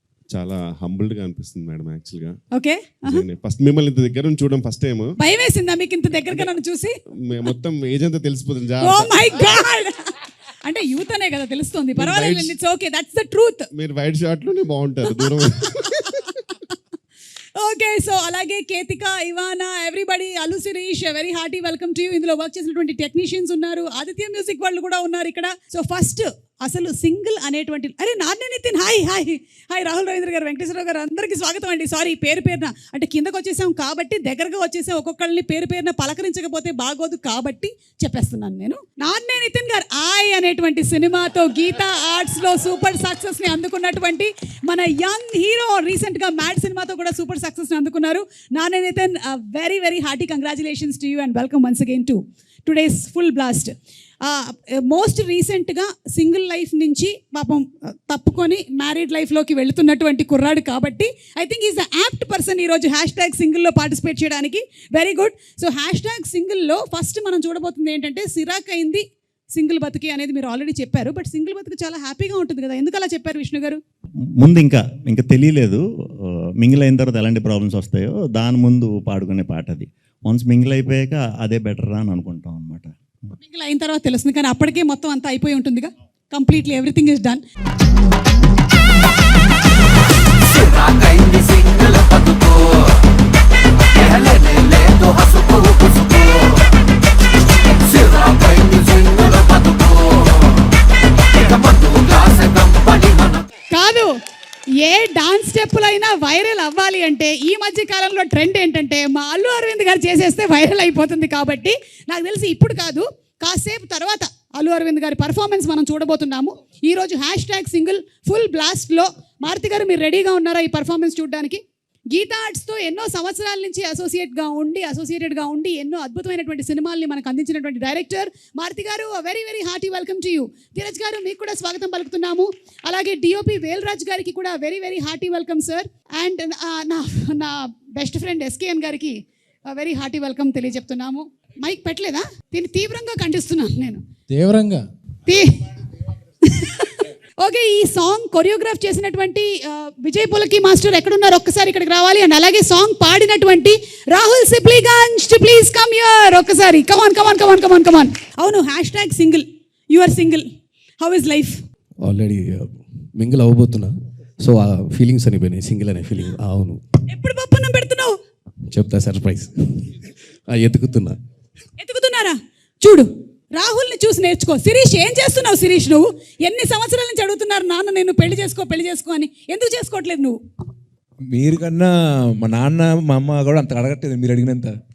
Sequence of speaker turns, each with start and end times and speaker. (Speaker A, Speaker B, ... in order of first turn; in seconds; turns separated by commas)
Speaker A: 0.3-2.4, Speaker B: 2.5-3.2, Speaker A: 3.0-5.1, Speaker B: 5.2-6.9, Speaker A: 7.2-9.1, Speaker B: 8.8-10.1, Speaker B: 10.6-13.7, Speaker A: 12.0-12.5, Speaker A: 13.7-16.3, Speaker B: 17.6-73.8, Speaker C: 74.4-82.9, Speaker B: 83.4-87.4, Speaker B: 103.7-104.1, Speaker B: 104.8-144.0, Speaker B: 145.2-145.6, Speaker B: 146.4-160.5, Speaker B: 161.0-161.6, Speaker D: 162.0-166.8, Speaker B: 167.1-168.2, Speaker D: 168.7-169.9, Speaker D: 170.5-171.2, Speaker B: 171.8-180.4, Speaker E: 181.3-184.7